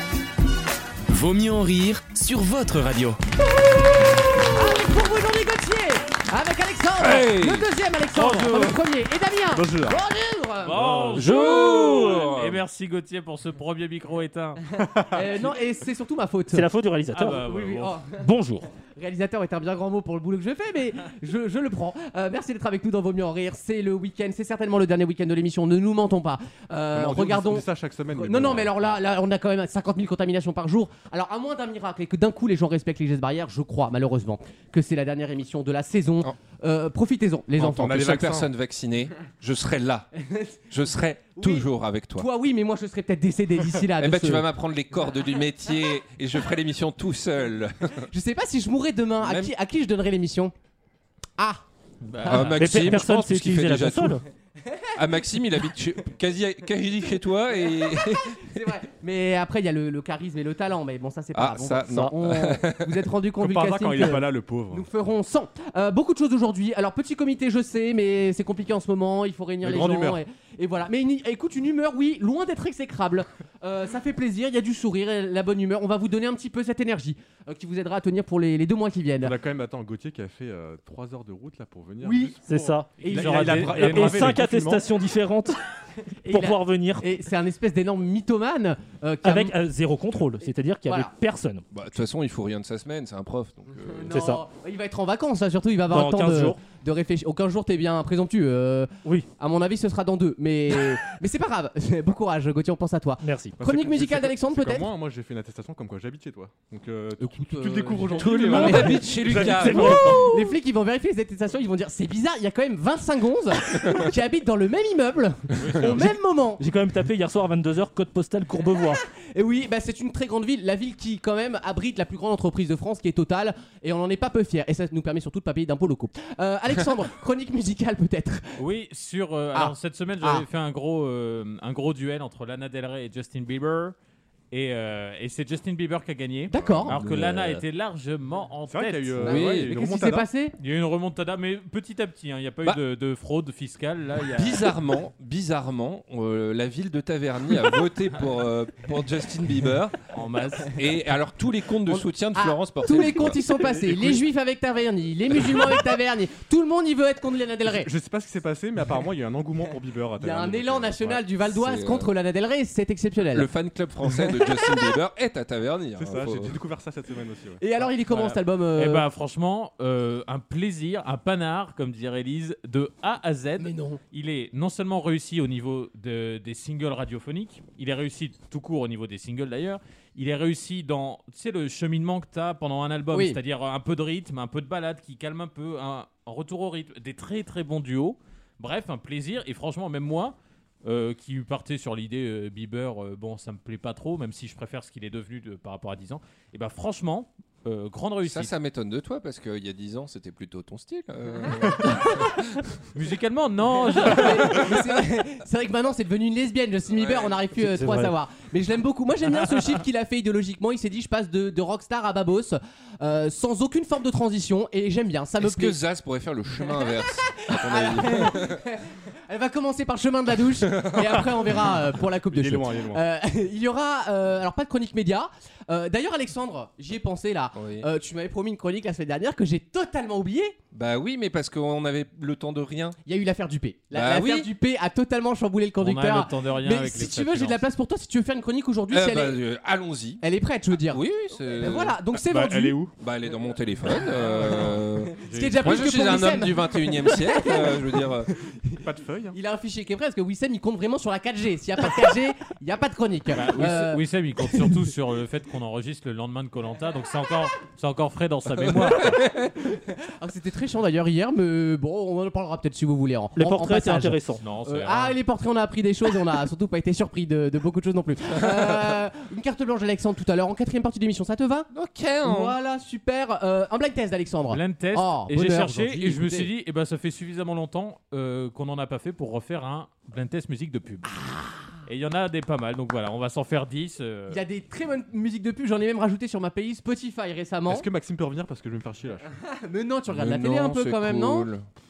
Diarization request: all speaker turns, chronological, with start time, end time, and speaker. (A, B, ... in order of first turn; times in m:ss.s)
0:01.1-0:03.2 A
0:04.5-0:11.0 B
0:07.0-0:07.7 C
0:09.5-0:10.0 D
0:10.6-0:14.6 E
0:10.8-0:11.2 D
0:11.1-0:12.6 C
0:14.8-0:15.5 D
0:15.1-0:16.7 B
0:16.5-0:17.4 F
0:17.1-0:18.0 E
0:17.3-0:38.5 B
0:18.1-0:18.7 F
0:26.9-0:29.0 D
0:37.6-0:40.1 C
0:40.2-0:40.6 B
0:40.7-0:42.3 C
0:41.3-0:44.4 B
0:44.0-0:48.0 C
0:48.1-0:50.5 B
0:49.2-0:49.5 C
0:52.0-0:52.7 E
0:52.2-0:52.5 B
0:52.2-0:54.2 C
0:52.6-0:54.2 F
0:54.6-0:54.9 B
0:55.0-0:58.4 C
0:57.9-1:19.3 B
1:01.3-1:03.0 C
1:03.4-1:04.9 D
1:09.6-1:10.2 D
1:19.2-1:24.9 D
1:22.0-1:22.3 B
1:22.4-1:25.6 F
1:23.0-1:23.8 B
1:23.0-1:24.4 E
1:26.2-1:29.5 B
1:26.3-1:27.0 F
1:29.2-1:31.6 F
1:30.9-1:31.1 B
1:31.7-1:34.0 C
1:33.8-1:44.9 B
1:34.1-1:34.4 F
1:35.9-1:36.6 F
1:43.2-1:43.6 F
1:43.6-1:50.2 D
1:47.2-1:56.6 B
1:48.1-1:50.2 C
1:49.3-1:50.5 F
1:55.6-1:56.1 E
1:56.6-1:59.0 F
1:59.3-2:08.6 B
2:08.6-2:13.9 E
2:09.5-2:10.4 B
2:14.5-2:19.4 E
2:16.5-2:16.9 B
2:16.5-2:17.6 C
2:18.7-2:20.3 D
2:19.2-2:20.5 B
2:19.3-2:19.7 C
2:20.6-2:24.7 E
2:24.3-2:30.0 C
2:30.1-2:30.8 E
2:30.7-2:33.4 C
2:31.9-2:37.9 B
2:33.6-2:34.2 D
2:37.6-2:41.2 D
2:40.2-2:43.5 B
2:41.4-2:42.1 C
2:43.3-2:46.6 C
2:46.0-2:47.6 D
2:47.6-2:49.0 B
2:48.1-3:18.5 E
2:53.6-2:54.0 B
3:18.2-3:22.4 C
3:22.9-3:24.6 E
3:23.8-3:35.8 B
3:26.9-3:27.4 C
3:27.6-3:28.1 F
3:35.4-3:38.6 C
3:37.4-3:50.6 B
3:40.6-3:41.2 C
3:42.3-3:43.0 D
3:47.5-3:47.9 C
3:50.7-3:53.0 C
3:53.0-3:59.4 B
3:53.9-3:54.5 C
3:55.8-3:57.6 E
3:58.9-4:00.2 C
4:00.2-4:01.0 B
4:00.9-4:02.0 C
4:01.6-4:02.8 B
4:02.2-4:02.9 D
4:03.0-4:08.3 C
4:05.2-4:08.0 B
4:05.3-4:05.5 D
4:08.8-4:09.4 D
4:09.3-4:14.0 B
4:13.3-4:19.2 E
4:18.6-4:19.4 C
4:19.4-4:31.7 B
4:23.4-4:24.4 F
4:24.4-4:25.2 E
4:31.7-4:32.6 C
4:32.2-4:36.5 B
4:34.5-4:41.1 E
4:41.1-4:41.8 B
4:41.8-4:44.4 E
4:44.3-4:47.8 B
4:47.7-4:49.3 D
4:49.4-4:51.5 B
4:50.1-4:51.6 C